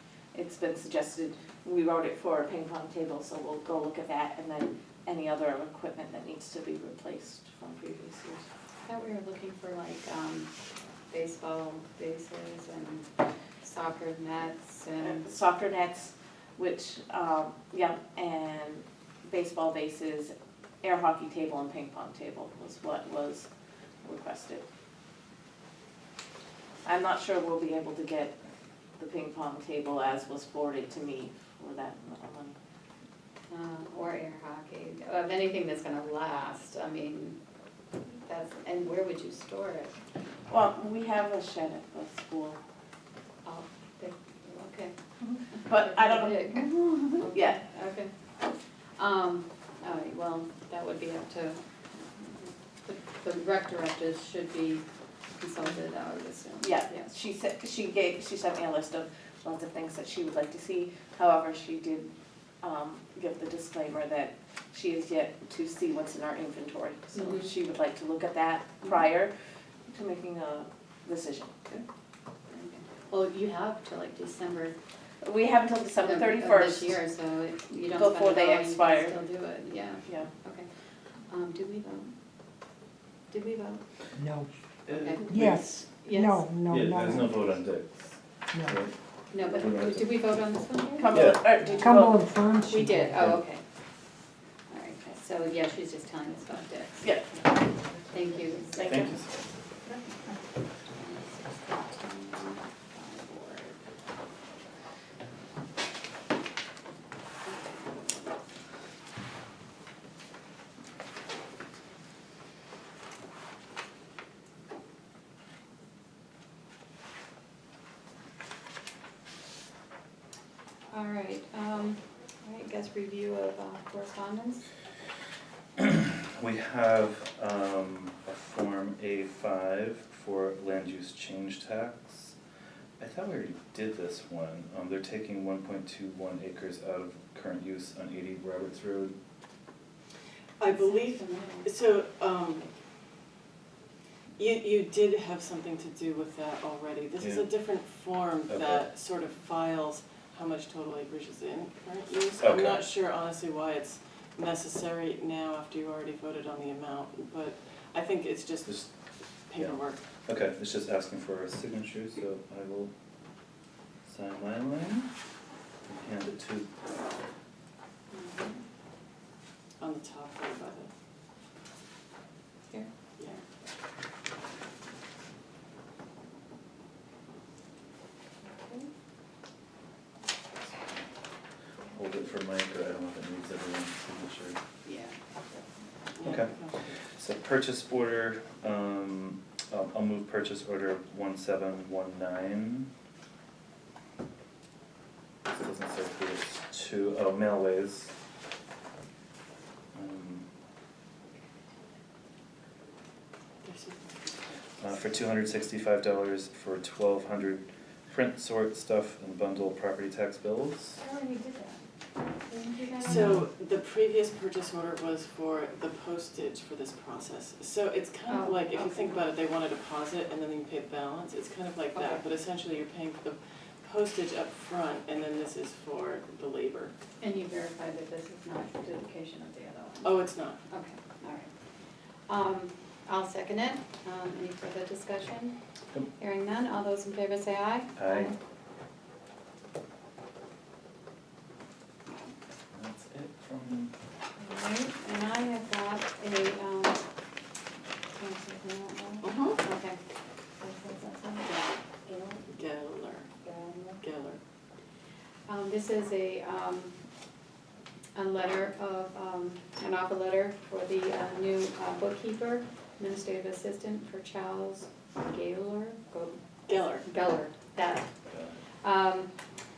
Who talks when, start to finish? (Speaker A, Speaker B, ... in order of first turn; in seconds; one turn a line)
Speaker A: 0.3-8.5
Speaker B: 8.8-10.5
Speaker B: 11.1-13.1
Speaker B: 13.6-15.2
Speaker A: 15.0-23.5
Speaker A: 24.0-24.6
Speaker A: 26.9-28.4
Speaker A: 29.0-32.6
Speaker B: 33.5-37.4
Speaker B: 38.3-39.9
Speaker A: 40.5-42.6
Speaker B: 43.5-44.9
Speaker A: 45.6-47.7
Speaker B: 45.7-48.1
Speaker B: 49.0-51.6
Speaker B: 52.2-54.9
Speaker B: 55.4-57.1
Speaker A: 56.6-62.1
Speaker A: 62.6-69.3
Speaker B: 67.2-67.5
Speaker A: 69.9-71.8
Speaker B: 72.5-74.8
Speaker A: 75.2-77.0
Speaker B: 76.0-80.7
Speaker A: 77.9-79.2
Speaker B: 81.3-82.1
Speaker B: 83.3-83.8
Speaker C: 84.2-84.5
Speaker B: 84.9-85.3
Speaker D: 84.9-85.5
Speaker C: 85.3-87.4
Speaker B: 86.0-86.3
Speaker D: 86.7-88.9
Speaker B: 89.3-91.1
Speaker D: 89.5-90.3
Speaker A: 91.0-92.2
Speaker D: 91.1-91.6
Speaker C: 91.8-93.4
Speaker B: 92.7-93.6
Speaker B: 94.7-97.2
Speaker A: 97.0-97.4
Speaker B: 98.1-99.2
Speaker A: 98.7-99.1
Speaker D: 98.8-99.3
Speaker B: 101.0-103.8
Speaker B: 107.5-108.1
Speaker B: 120.9-124.7
Speaker D: 125.8-132.3
Speaker D: 133.0-139.2
Speaker E: 140.6-142.7
Speaker B: 140.8-141.7
Speaker E: 144.4-158.9
Speaker D: 148.5-148.9
Speaker D: 152.4-152.8
Speaker E: 159.5-160.0
Speaker D: 159.6-162.9
Speaker D: 164.1-165.1
Speaker D: 165.9-166.7
Speaker B: 168.1-168.6
Speaker E: 169.8-170.9
Speaker B: 178.4-178.9
Speaker D: 181.9-184.6
Speaker B: 184.9-185.1
Speaker E: 186.2-186.7
Speaker D: 186.2-186.6
Speaker D: 187.2-192.9
Speaker D: 195.5-198.1
Speaker D: 199.9-200.5
Speaker E: 203.6-204.4
Speaker D: 204.8-211.0
Speaker B: 211.0-211.8
Speaker B: 212.5-213.3
Speaker E: 212.9-226.9
Speaker B: 218.3-219.3
Speaker B: 222.0-222.2
Speaker B: 227.2-231.5
Speaker E: 230.0-230.6
Speaker B: 232.3-235.6
Speaker B: 236.2-238.3
Speaker D: 238.0-238.3
Speaker D: 242.7-243.9
Speaker B: 244.4-247.0
Speaker B: 248.2-250.0
Speaker E: 249.3-249.5
Speaker B: 250.6-252.5
Speaker E: 252.5-253.3
Speaker B: 253.4-254.0
Speaker E: 254.0-254.4
Speaker B: 255.5-256.9
Speaker B: 258.1-268.1
Speaker E: 266.7-267.1
Speaker D: 268.3-268.6
Speaker B: 268.8-269.3